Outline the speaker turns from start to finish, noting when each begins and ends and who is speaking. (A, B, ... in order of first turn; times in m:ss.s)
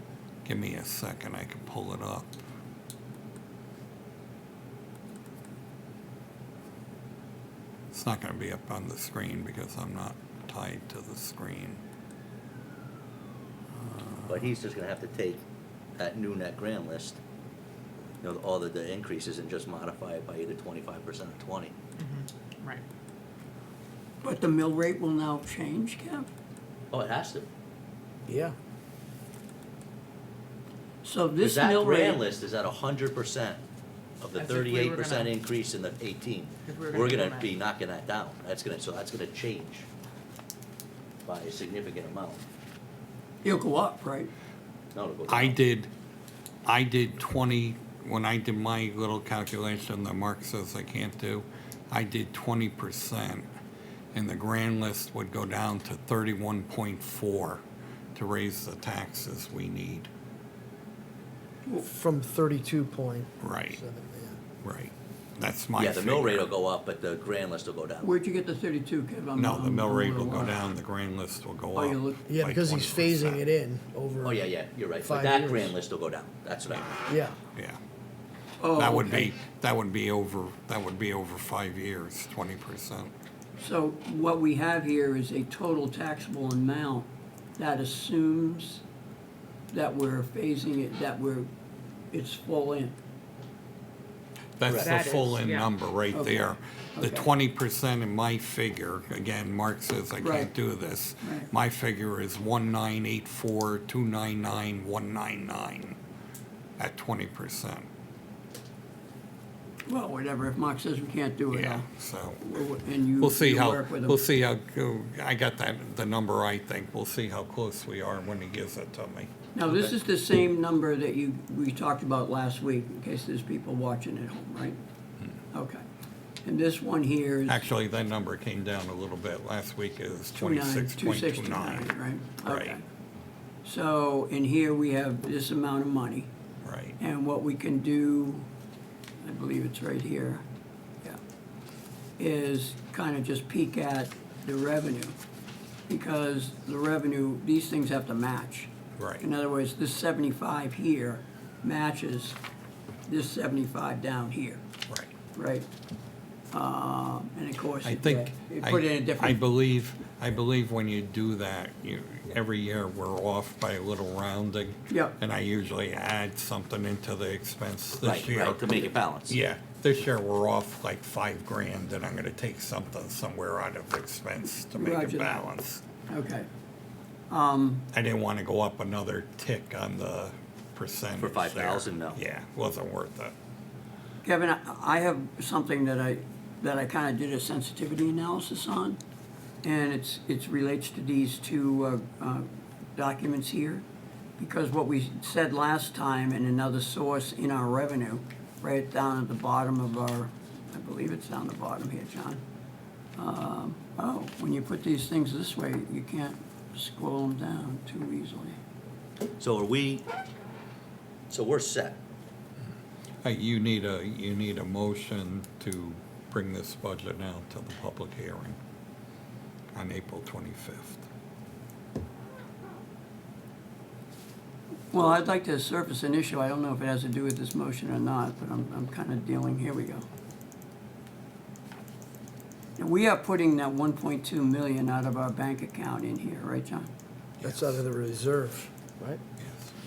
0:00.4-0:02.3 A
0:07.9-0:11.8 A
0:13.8-0:14.3 A
0:14.3-0:15.4 B
0:16.0-0:17.2 B
0:18.2-0:21.7 B
0:22.0-0:22.8 C
0:24.2-0:26.3 D
0:26.9-0:27.5 B
0:28.3-0:28.5 E
0:31.0-0:32.2 D
0:31.4-0:33.6 B
0:34.2-0:39.8 B
0:34.4-0:35.3 C
0:36.6-0:37.6 C
0:41.2-0:42.4 B
0:43.4-0:44.3 D
0:44.9-0:45.6 B
0:45.3-0:45.9 A
0:46.6-0:53.5 A
0:54.1-0:57.6 A
0:58.1-1:00.1 A
1:01.8-1:04.4 E
1:03.4-1:03.8 A
1:04.6-1:06.5 A
1:05.8-1:08.1 B
1:08.0-1:10.6 D
1:09.4-1:13.4 A
1:11.7-1:12.2 D
1:12.3-1:14.4 E
1:14.2-1:17.0 B
1:15.0-1:15.7 E
1:17.1-1:17.4 E
1:18.6-1:19.3 D
1:18.7-1:23.1 A
1:23.6-1:28.8 D
1:29.7-1:31.5 D
1:32.1-1:32.9 D
1:34.6-1:46.0 A
1:34.7-1:35.0 B
1:34.7-1:35.7 C
1:36.1-1:37.3 D
1:40.2-1:40.5 D
1:41.2-1:41.5 D
1:46.8-1:47.9 A
1:49.9-1:51.9 D
1:51.5-1:52.6 A
1:52.4-1:54.2 D
1:53.2-1:59.9 A
1:59.5-2:04.8 D
2:05.5-2:05.8 D
2:06.4-2:07.6 D
2:07.5-2:11.9 A
2:10.3-2:12.8 D
2:12.4-2:12.8 A
2:13.6-2:16.3 D
2:16.6-2:17.0 A
2:17.0-2:18.4 D
2:19.2-2:20.4 D
2:22.2-2:25.1 D
2:25.9-2:32.4 D
2:29.0-2:29.2 A
2:33.1-2:34.6 D
2:35.3-2:35.7 D
2:36.5-2:39.4 D
2:37.8-2:48.6 A
2:44.9-2:45.2 D
2:48.0-2:49.4 B
2:49.3-2:55.8 A
2:54.7-2:55.4 D
2:56.1-2:56.5 D
2:57.3-2:57.8 D
2:57.9-3:03.3 A
3:01.2-3:02.2 B
3:04.2-3:09.0 D
3:09.6-3:13.8 D
3:14.4-3:22.4 D
3:23.2-3:28.6 D
3:29.4-3:30.0 B
3:31.3-3:32.0 B
3:33.2-3:38.6 A
3:39.7-3:41.0 A
3:44.9-3:50.0 D
3:52.8-3:56.9 D
3:57.4-3:57.8 A
3:57.4-3:59.2 E
3:59.4-3:59.7 A